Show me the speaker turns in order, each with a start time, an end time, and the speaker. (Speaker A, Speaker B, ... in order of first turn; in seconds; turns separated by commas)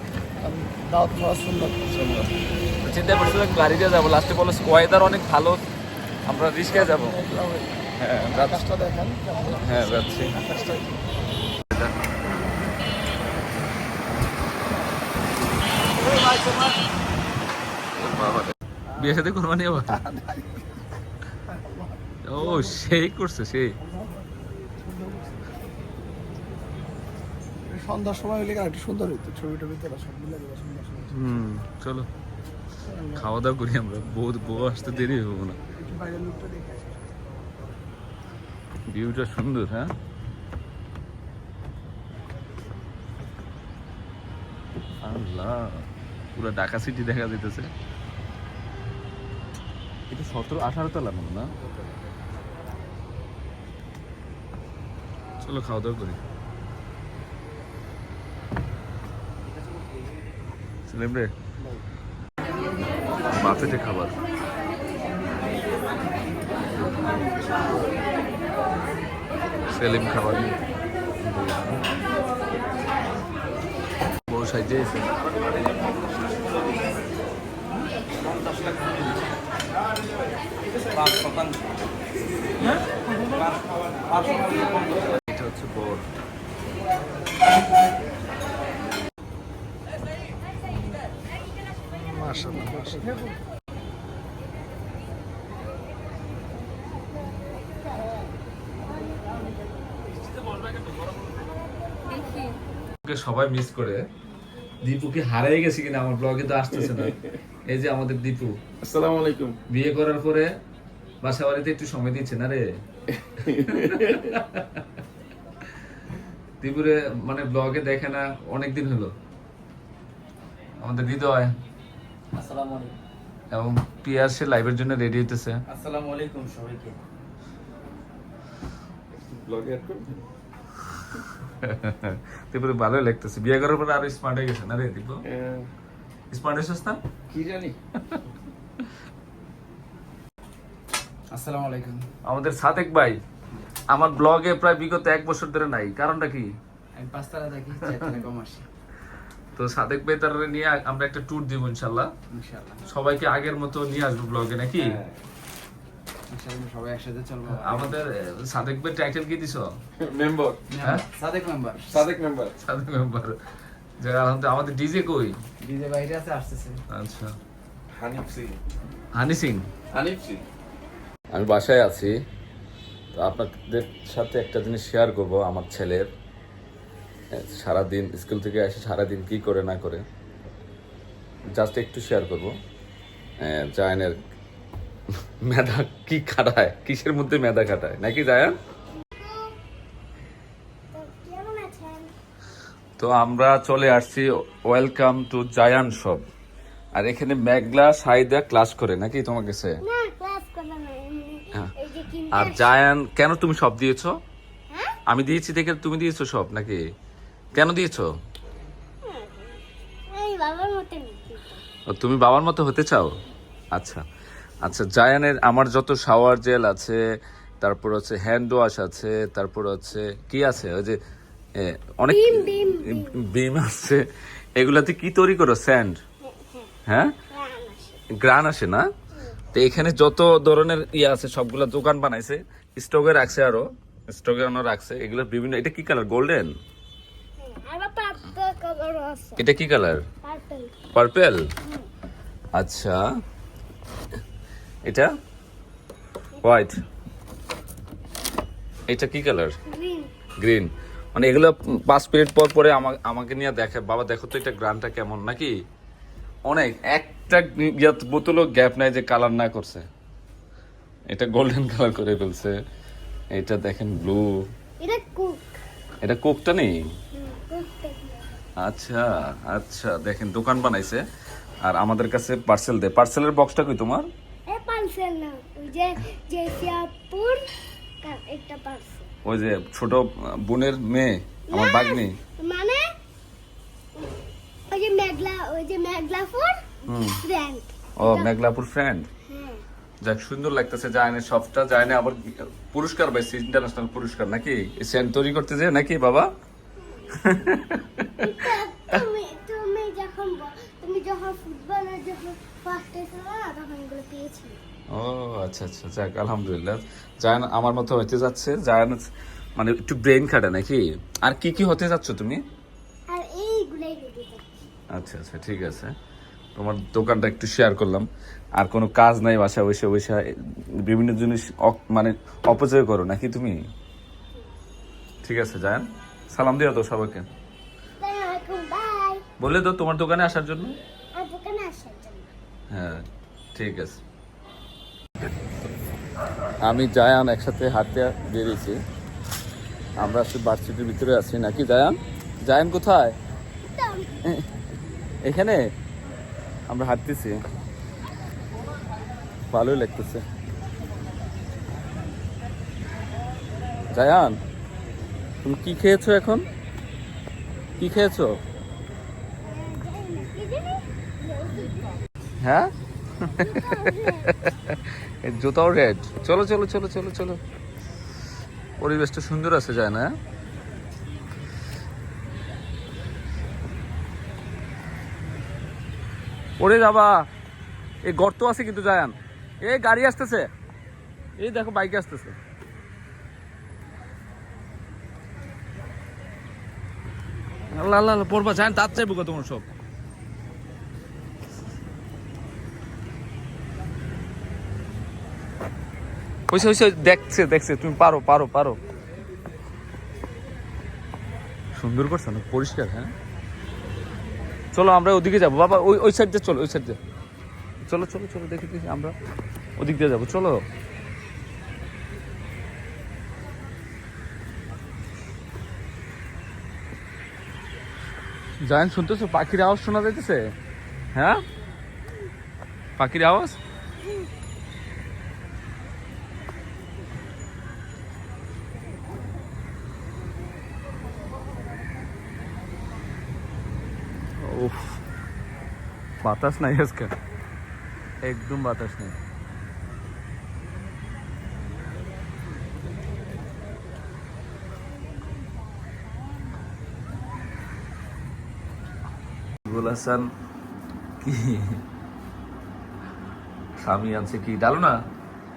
Speaker A: 0.4-1.9, Speaker B: 1.9-2.3, Speaker B: 2.8-5.6, Speaker B: 6.2-7.2, Speaker A: 6.6-11.0, Speaker B: 8.0-8.6, Speaker B: 9.6-10.3, Speaker C: 15.9-16.8, Speaker B: 18.0-20.0, Speaker A: 19.9-20.6, Speaker A: 21.5-22.8, Speaker B: 22.2-23.8, Speaker A: 23.8-25.5, Speaker A: 27.6-31.3, Speaker B: 31.1-32.1, Speaker A: 32.8-33.3, Speaker B: 33.1-35.6, Speaker A: 35.7-37.1, Speaker B: 38.9-39.9, Speaker B: 45.0-47.7, Speaker B: 50.1-51.5, Speaker B: 55.4-56.2, Speaker B: 60.9-61.3, Speaker B: 63.3-64.2, Speaker B: 69.7-70.6, Speaker B: 71.2-71.8, Speaker B: 74.3-75.1, Speaker C: 78.6-78.8, Speaker B: 80.9-81.5, Speaker C: 84.2-84.8, Speaker B: 85.2-86.0, Speaker A: 91.9-93.3, Speaker B: 103.0-104.0, Speaker B: 104.8-107.2, Speaker C: 106.8-107.1, Speaker B: 107.7-108.6, Speaker C: 108.8-109.6, Speaker B: 109.7-110.5, Speaker B: 111.2-112.7, Speaker C: 113.2-114.3, Speaker B: 113.5-114.8, Speaker B: 116.6-119.1, Speaker B: 120.8-121.5, Speaker D: 122.3-122.9, Speaker B: 123.5-125.6, Speaker D: 125.7-127.0, Speaker C: 129.2-130.2, Speaker B: 131.5-135.2, Speaker C: 135.2-135.7, Speaker B: 136.3-137.0, Speaker D: 137.3-137.8, Speaker D: 141.3-142.1, Speaker B: 142.2-143.2, Speaker B: 143.9-146.5, Speaker D: 146.9-148.7, Speaker B: 149.6-152.1, Speaker D: 152.3-152.8, Speaker B: 152.8-155.0, Speaker C: 154.8-155.2, Speaker D: 156.3-158.0, Speaker B: 157.5-159.8, Speaker C: 160.0-160.6, Speaker D: 160.7-162.0, Speaker C: 161.8-162.5, Speaker B: 162.6-163.4, Speaker B: 164.0-165.4, Speaker D: 165.6-166.8, Speaker B: 166.9-167.3, Speaker C: 167.9-168.6, Speaker B: 169.1-169.7, Speaker C: 169.9-170.4, Speaker B: 171.3-172.2, Speaker B: 173.1-176.1, Speaker B: 177.3-180.0, Speaker B: 181.6-182.5, Speaker B: 183.4-184.2, Speaker B: 185.4-188.6, Speaker E: 189.1-189.6, Speaker E: 190.9-192.1, Speaker B: 193.0-196.2, Speaker B: 196.9-199.8, Speaker E: 199.8-202.7, Speaker B: 202.3-204.2, Speaker E: 204.7-204.9, Speaker B: 205.1-206.8, Speaker B: 207.5-208.1, Speaker E: 209.0-211.6, Speaker B: 211.9-213.2, Speaker B: 213.7-214.0, Speaker B: 214.6-217.0, Speaker B: 217.6-221.0, Speaker B: 221.6-224.0, Speaker E: 222.1-223.1, Speaker B: 224.6-226.0, Speaker E: 226.2-226.7, Speaker B: 226.9-227.1, Speaker E: 227.3-228.0, Speaker B: 228.1-228.9, Speaker B: 229.5-236.5, Speaker E: 237.4-239.4, Speaker B: 239.4-240.0, Speaker E: 240.2-240.7, Speaker B: 240.9-241.5, Speaker B: 242.6-243.1, Speaker B: 244.8-245.1, Speaker B: 246.4-246.8, Speaker B: 248.9-249.6, Speaker E: 249.7-250.1, Speaker B: 250.4-255.6, Speaker B: 256.4-259.9, Speaker B: 261.1-262.6, Speaker B: 263.3-264.5, Speaker E: 264.8-265.5, Speaker B: 266.0-266.8, Speaker E: 267.1-268.3, Speaker B: 268.6-271.0, Speaker B: 271.6-274.1, Speaker E: 274.5-277.5, Speaker E: 278.0-279.1, Speaker B: 279.2-282.2, Speaker E: 281.5-282.9, Speaker E: 284.7-288.3, Speaker B: 286.9-287.2, Speaker B: 288.0-289.1, Speaker E: 289.3-289.6, Speaker B: 290.0-296.3, Speaker B: 297.1-298.3, Speaker E: 298.2-304.6, Speaker B: 304.9-312.4, Speaker E: 313.1-314.6, Speaker B: 314.9-315.9, Speaker B: 316.6-323.6, Speaker B: 325.2-327.3, Speaker E: 328.0-329.2, Speaker B: 329.4-330.8, Speaker E: 331.1-332.3, Speaker B: 332.7-333.0, Speaker B: 333.6-334.0, Speaker B: 336.6-338.8, Speaker B: 340.0-343.1, Speaker E: 343.6-344.1, Speaker B: 345.2-345.6, Speaker B: 346.7-347.4, Speaker B: 349.5-350.2, Speaker B: 353.9-354.4, Speaker B: 355.4-356.4, Speaker B: 357.8-358.4, Speaker E: 359.4-362.0, Speaker B: 362.4-367.4, Speaker E: 363.4-364.4, Speaker B: 368.8-370.1, Speaker B: 376.6-377.3, Speaker B: 378.0-380.5, Speaker B: 381.4-382.4, Speaker B: 387.7-389.7, Speaker B: 396.5-398.8, Speaker B: 401.8-403.1, Speaker B: 404.7-407.0, Speaker B: 407.9-409.1, Speaker B: 409.8-410.6, Speaker B: 418.6-420.5, Speaker B: 421.1-421.4, Speaker B: 423.0-423.6, Speaker E: 424.0-424.3, Speaker B: 434.4-435.0, Speaker B: 436.2-437.1, Speaker B: 438.2-439.2, Speaker B: 449.6-450.3, Speaker B: 451.2-451.8, Speaker B: 453.8-455.0